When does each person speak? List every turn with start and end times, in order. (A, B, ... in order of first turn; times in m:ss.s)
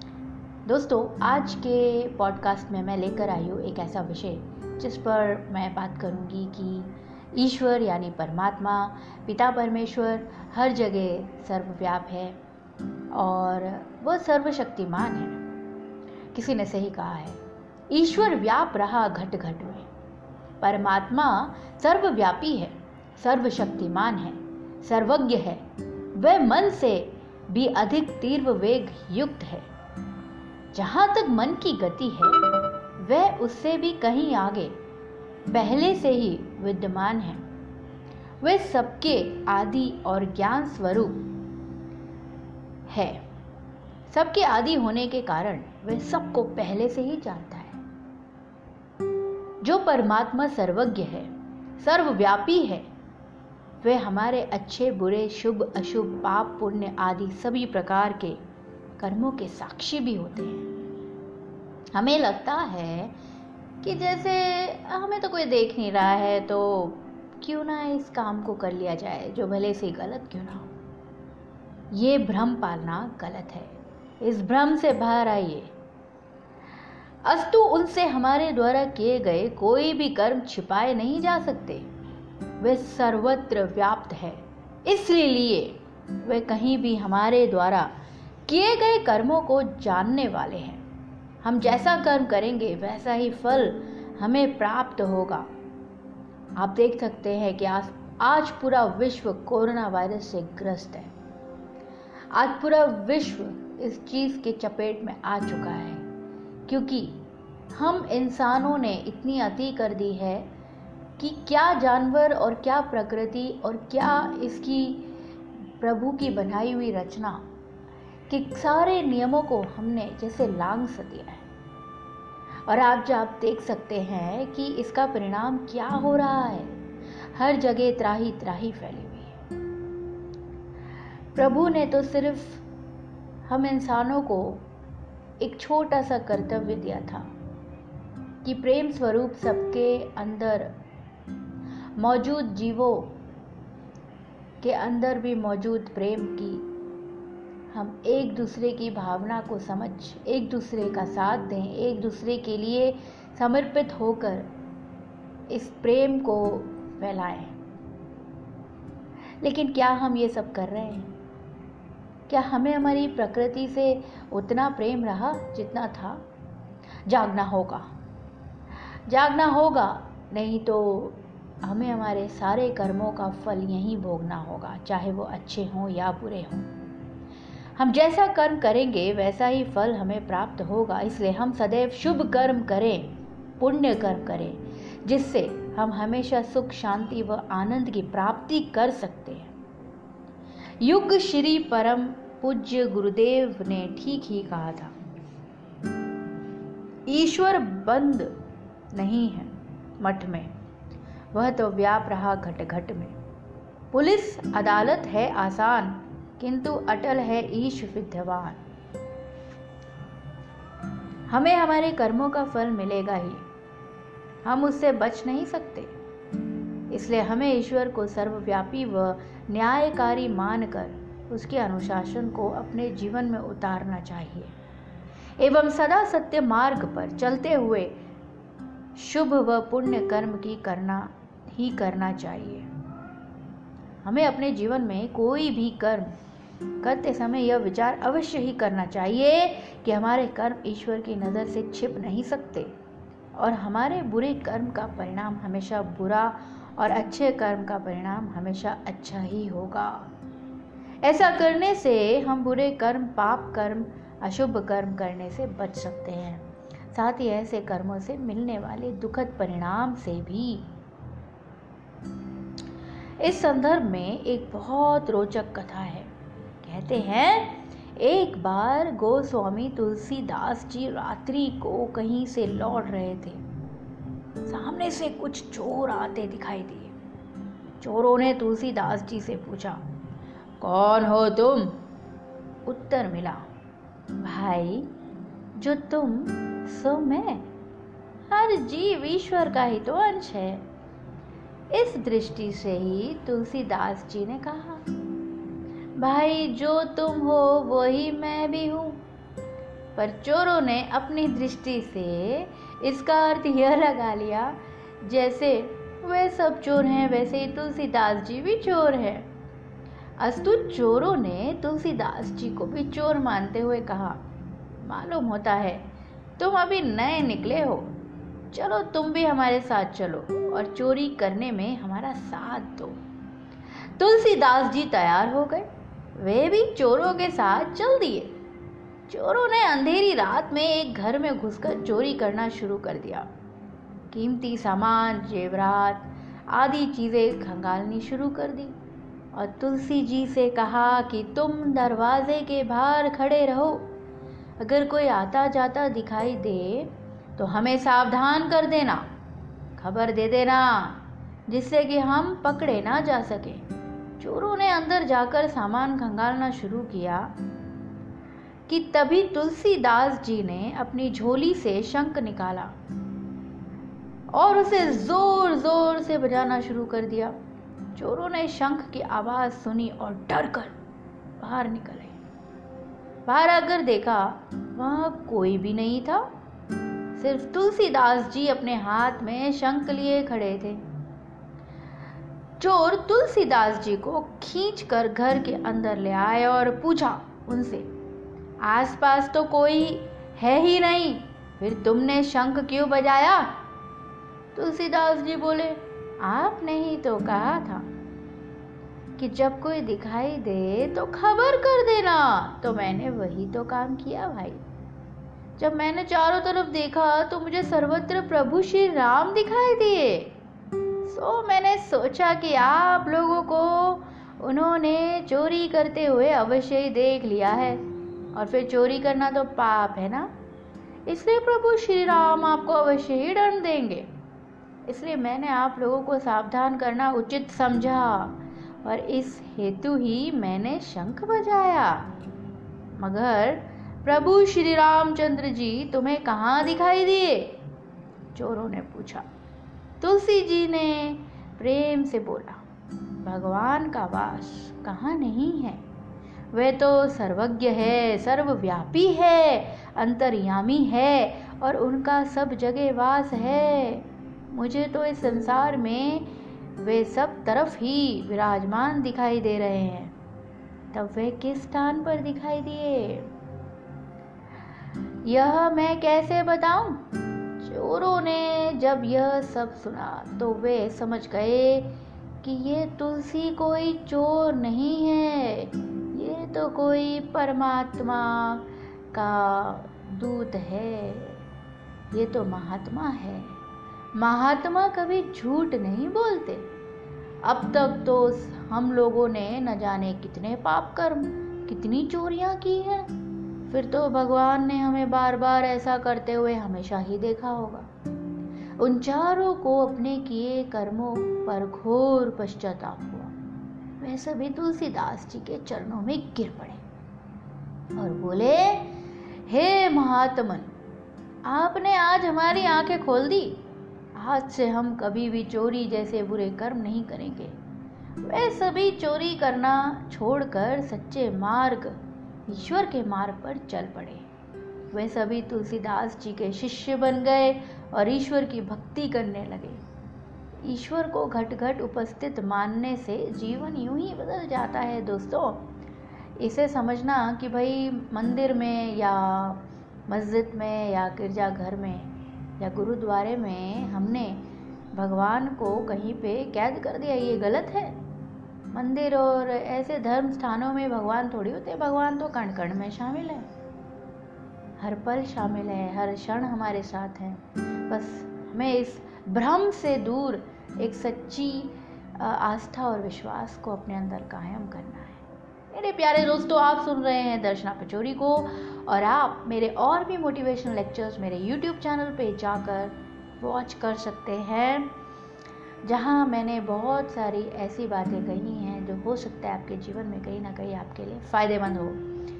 0:00.7-0:12.4 A
0:13.1-0:15.4 A
0:16.3-0:19.9 A
0:20.6-0:25.6 A
0:26.2-0:29.7 A
0:30.7-0:32.4 A
0:33.0-0:34.8 A
0:35.5-0:37.4 A
0:38.4-0:41.3 A
0:42.9-0:43.2 A
0:44.1-0:47.8 A
0:49.6-0:52.9 A
0:53.8-0:58.4 A
0:59.0-1:00.7 A
1:01.9-1:03.2 A
1:03.8-1:10.7 A
1:11.9-1:15.7 A
1:17.2-1:21.9 A
1:22.6-1:27.9 A
1:28.5-1:30.8 A
1:31.4-1:35.5 A
1:36.6-1:41.1 A
1:42.3-1:46.1 A
1:46.7-1:50.5 A
1:51.2-1:55.1 A
1:55.8-1:57.4 A
1:58.3-2:01.5 A
2:02.7-2:09.4 A
2:11.4-2:12.6 A
2:13.5-2:14.7 A
2:15.4-2:17.3 A
2:18.4-2:20.8 A
2:22.0-2:23.2 A
2:24.6-2:26.7 A
2:27.7-2:34.5 A
2:35.5-2:37.6 A
2:39.4-2:41.2 A
2:42.3-2:46.2 A
2:47.1-2:47.9 A
2:49.1-2:56.7 A
2:57.8-3:09.5 A
3:10.8-3:14.9 A
3:17.1-3:18.3 A
3:18.9-3:20.5 A
3:21.3-3:23.2 A
3:23.9-3:28.6 A
3:31.3-3:33.4 A
3:34.4-3:35.9 A
3:36.9-3:44.5 A
3:45.4-3:48.0 A
3:49.0-3:52.7 A
3:54.0-3:56.1 A
3:56.8-4:02.7 A
4:03.4-4:10.1 A
4:11.0-4:20.7 A
4:23.2-4:26.1 A
4:26.6-4:33.4 A
4:34.5-4:37.0 A
4:37.8-4:39.8 A
4:40.6-4:41.8 A
4:42.7-4:43.5 A
4:44.2-4:44.9 A
4:45.6-4:47.5 A
4:48.3-4:50.7 A
4:51.7-4:54.8 A
4:56.0-4:59.0 A
5:00.0-5:09.3 A
5:10.2-5:14.2 A
5:14.8-5:18.0 A
5:18.5-5:23.0 A
5:24.0-5:28.4 A
5:29.1-5:33.3 A
5:34.1-5:38.8 A
5:39.3-5:43.9 A
5:44.6-5:49.1 A
5:49.8-5:53.6 A
5:54.2-5:57.3 A
5:58.7-6:02.8 A
6:04.3-6:07.4 A
6:07.9-6:10.8 A
6:11.4-6:12.2 A
6:13.3-6:16.3 A
6:17.2-6:20.9 A
6:22.6-6:27.9 A
6:28.6-6:33.6 A
6:34.5-6:37.9 A
6:39.2-6:44.6 A
6:45.6-6:50.4 A
6:51.0-7:00.3 A
7:01.1-7:04.1 A
7:04.9-7:12.1 A
7:13.0-7:17.6 A
7:18.3-7:19.3 A
7:20.0-7:22.6 A
7:23.2-7:25.8 A
7:26.5-7:40.2 A
7:40.9-7:43.3 A
7:45.2-7:47.1 A
7:47.6-8:01.5 A
8:02.1-8:03.6 A
8:04.2-8:06.7 A
8:07.4-8:13.1 A
8:13.7-8:17.9 A
8:18.8-8:23.3 A
8:24.0-8:26.8 A
8:28.0-8:30.7 A
8:31.4-8:37.6 A
8:38.2-8:44.3 A
8:44.9-8:49.8 A
8:50.6-8:55.7 A
8:56.4-9:08.0 A
9:08.7-9:13.5 A
9:14.8-9:34.9 A
9:35.8-9:42.0 A